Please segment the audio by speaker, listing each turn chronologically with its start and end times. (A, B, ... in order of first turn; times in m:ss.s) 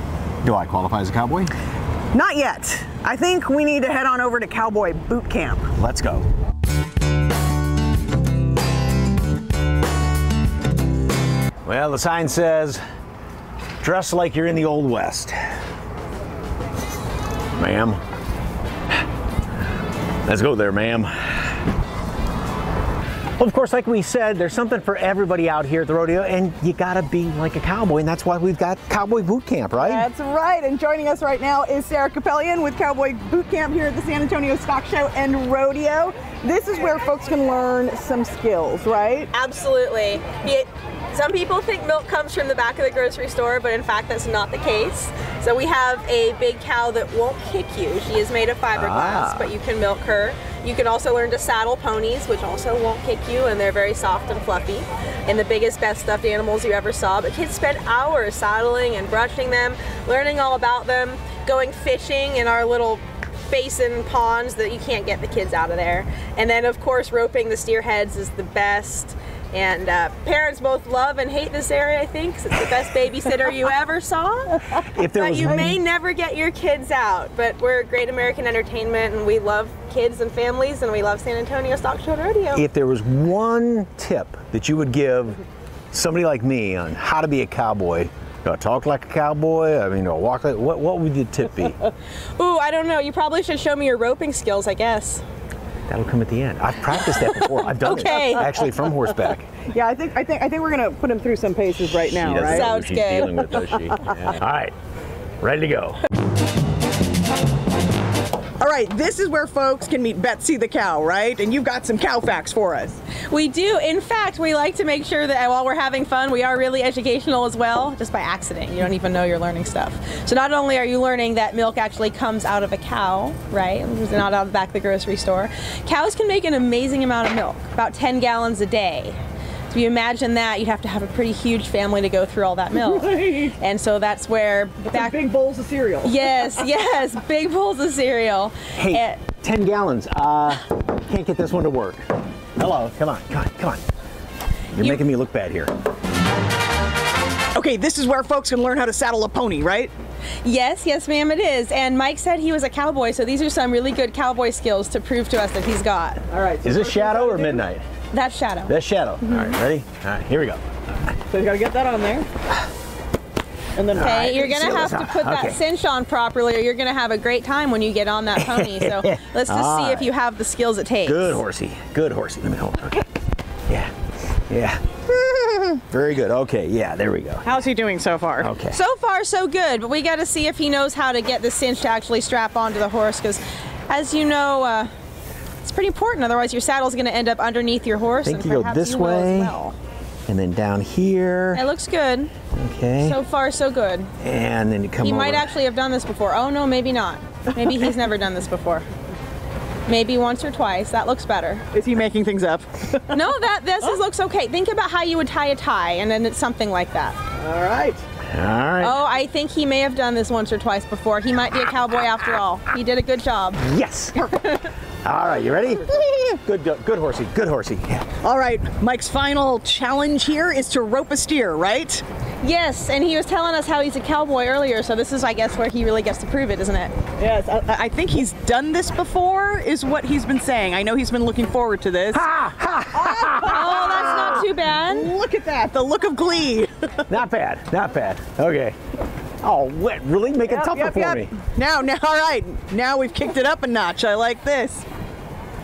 0:00.4-0:01.5 A
0:02.1-0:05.7 B
0:05.8-0:06.3 A
0:11.6-0:12.8 A
0:13.8-0:15.4 A
0:17.6-0:18.0 A
0:20.3-0:21.5 A
0:23.4-0:30.0 A
0:29.8-0:39.3 B
0:39.3-1:22.7 C
0:48.8-0:49.5 A
1:14.8-1:15.8 A
1:22.5-1:25.4 A
1:25.9-1:31.8 A
1:32.4-1:35.2 C
1:35.9-1:39.5 A
1:37.0-1:38.7 C
1:39.7-1:42.7 B
1:42.1-1:44.7 A
1:42.5-1:43.5 C
1:45.4-1:46.0 A
1:48.6-1:53.0 B
1:53.3-2:09.2 C
2:09.7-2:15.2 C
2:12.8-2:13.5 B
2:14.9-2:16.5 B
2:16.0-2:19.2 C
2:18.8-2:22.0 A
2:22.6-2:23.8 A
2:24.7-2:25.7 A
2:24.8-2:25.0 C
2:27.5-2:29.9 B
2:30.4-2:36.2 C
2:36.3-2:37.6 B
2:36.6-2:37.8 A
2:38.1-2:39.6 C
2:38.7-2:40.6 A
2:41.3-2:42.3 B
2:43.8-2:44.6 B
2:43.9-2:45.6 A
2:44.0-2:51.4 C
2:48.4-2:50.1 A
2:51.0-2:53.0 A
2:54.5-2:57.5 A
2:57.4-2:58.5 B
2:58.4-2:58.8 A
2:58.7-3:04.9 C
3:05.6-3:09.8 C
3:08.2-3:09.6 A
3:10.3-3:11.7 A
3:11.5-3:12.3 C
3:12.5-3:13.2 A
3:13.0-3:14.1 C
3:14.2-3:15.5 A
3:15.0-3:18.8 C
3:19.9-3:21.6 C
3:21.7-3:23.2 B
3:23.1-3:27.2 C
3:27.4-3:28.0 B
3:28.3-3:29.0 A
3:28.8-3:33.6 C
3:33.6-3:34.2 A
3:34.2-3:34.6 C
3:35.0-3:38.1 A
3:38.2-3:42.0 B
3:42.4-3:46.9 C
3:47.2-3:52.3 B
3:52.1-3:54.4 A
3:53.0-3:57.0 B
3:53.4-3:55.1 C
3:57.1-3:58.8 A
3:59.4-4:01.3 A
4:00.4-4:04.9 B